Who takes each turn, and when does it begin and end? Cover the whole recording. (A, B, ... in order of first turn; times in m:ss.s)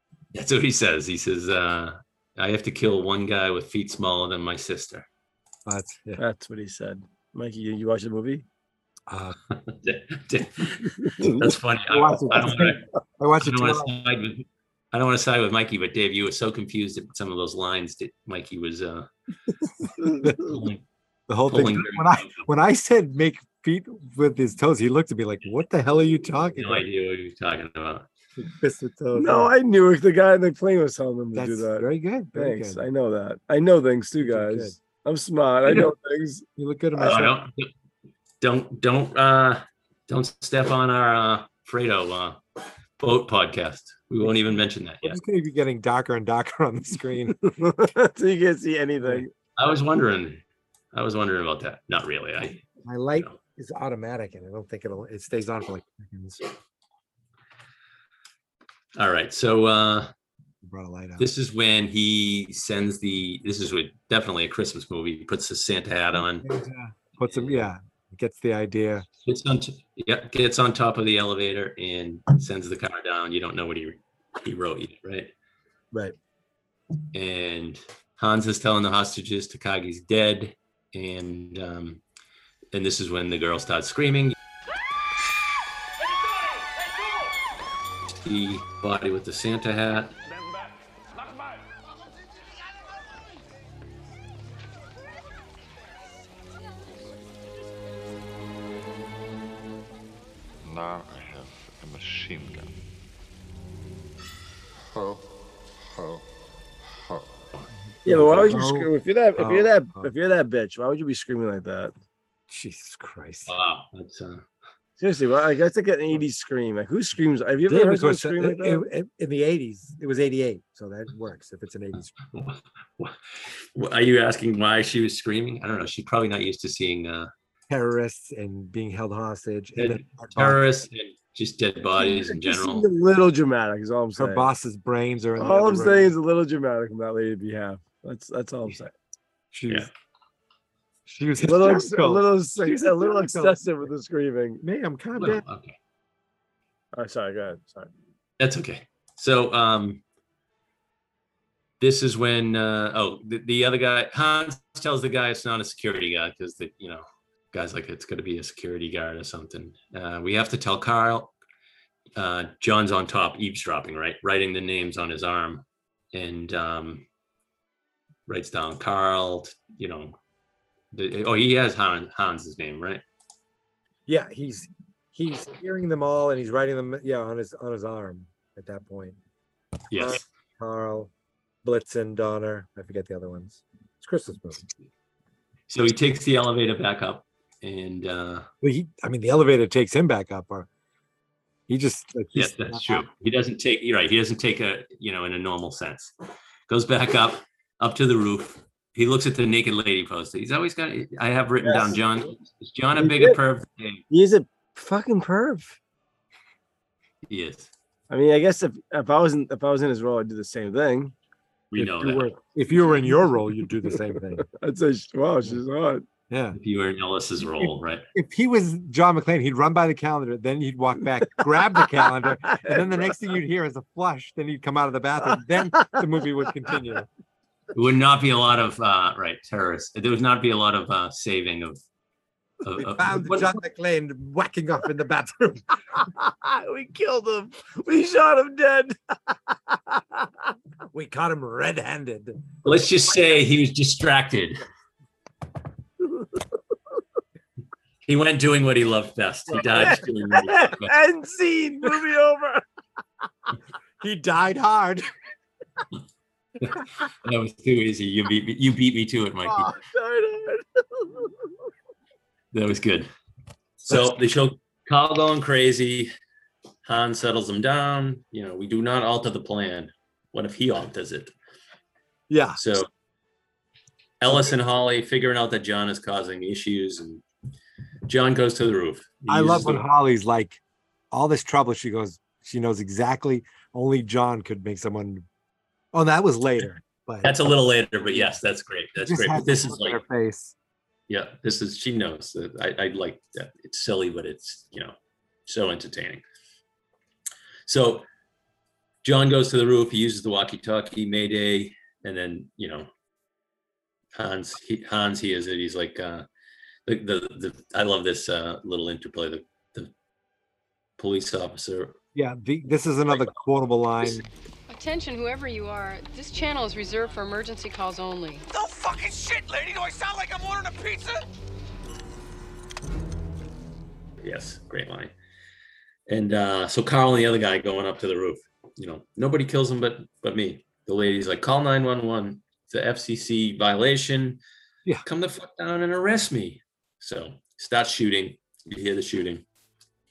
0:00.3-0:05.1 A
0:05.6-0:06.2 B
0:06.2-0:08.4 C
0:09.1-0:09.4 B
0:09.5-0:12.8 A
0:11.9-0:13.9 B
0:13.4-0:19.1 A
0:20.2-0:20.5 B
0:20.4-0:20.8 A
0:21.3-0:26.8 B
0:21.4-0:22.4 A
0:26.5-0:28.0 A
0:28.4-0:29.5 B
0:29.1-0:36.4 C
0:31.3-0:32.8 B
0:34.3-0:34.7 B
0:36.6-0:37.4 B
0:37.0-0:37.7 A
0:38.4-0:42.4 A
0:43.0-0:45.2 A
0:44.2-0:47.5 B
0:47.4-0:49.3 C
0:49.6-0:50.4 A
0:50.9-0:52.6 A
0:52.8-0:56.4 B
0:59.0-1:00.1 A
1:00.6-1:01.3 B
1:01.2-1:06.5 A
1:06.2-1:09.0 B
1:07.3-1:07.6 A
1:09.2-1:15.3 A
1:17.1-1:22.0 A
1:22.7-1:24.3 A
1:28.2-1:30.1 A
1:40.6-1:42.7 D
1:47.9-1:50.1 B
1:48.0-1:51.9 C
1:52.5-1:53.5 B
1:53.5-1:54.4 A
1:55.0-1:58.8 C
1:57.7-2:02.1 B
2:02.3-2:03.2 A
2:03.7-2:07.3 A
2:07.7-2:10.6 B
2:09.8-2:12.9 A
2:12.0-2:14.4 C
2:14.2-2:16.1 B
2:15.4-2:18.9 C
2:19.5-2:19.9 B
2:21.0-2:23.6 B
2:21.4-2:24.6 C
2:24.6-2:25.4 B
2:25.2-2:25.8 A
2:26.9-2:27.9 C
2:28.4-2:30.0 A
2:31.8-2:41.3 A
2:42.2-2:47.0 A
2:48.3-2:50.2 A
2:50.9-2:53.0 A
2:54.1-2:59.2 B
2:59.9-3:00.2 A
2:59.9-3:01.1 B
3:01.6-3:04.6 B
3:05.7-3:08.5 A
3:08.6-3:10.7 B
3:11.7-3:13.0 B
3:12.3-3:16.1 A
3:16.7-3:24.0 A
3:21.6-3:22.0 C
3:23.0-3:23.4 C
3:24.1-3:25.8 C
3:27.3-3:27.7 A
3:28.1-3:31.1 C
3:31.7-3:32.3 A
3:31.8-3:34.4 B
3:34.4-3:36.0 C
3:36.3-3:36.6 B
3:36.6-3:38.0 A
3:37.6-3:47.1 B
3:42.5-3:43.1 C
3:47.7-3:51.8 A
3:52.6-3:53.5 A
3:52.8-3:55.7 B
3:56.2-3:59.0 C
3:59.9-4:00.2 C
4:00.9-4:02.4 B
4:02.6-4:04.6 A
4:08.1-4:10.9 A
4:09.5-4:12.6 C
4:14.0-4:15.0 B
4:16.6-4:19.7 A
4:19.5-4:21.4 C
4:22.5-4:23.1 A
4:23.8-4:26.1 A
4:26.8-4:31.3 A
4:32.3-4:32.6 B
4:32.6-4:32.9 A
4:34.2-4:37.2 A
4:38.1-4:39.8 A
4:39.3-4:40.6 B
4:41.1-4:45.2 B
4:45.9-4:47.4 B
4:47.2-4:50.0 A
4:48.1-4:48.3 B
4:49.0-4:50.5 B
4:51.1-4:54.9 A
4:55.5-4:56.2 A
4:57.7-4:58.0 A
4:59.0-5:02.9 A
5:04.2-5:06.2 A
5:06.9-5:09.9 A
5:11.0-5:11.9 A
5:12.1-5:14.3 B
5:14.7-5:18.4 E
5:18.5-5:21.1 F
5:24.2-5:25.1 A
5:26.1-5:34.4 A
5:35.0-5:39.4 A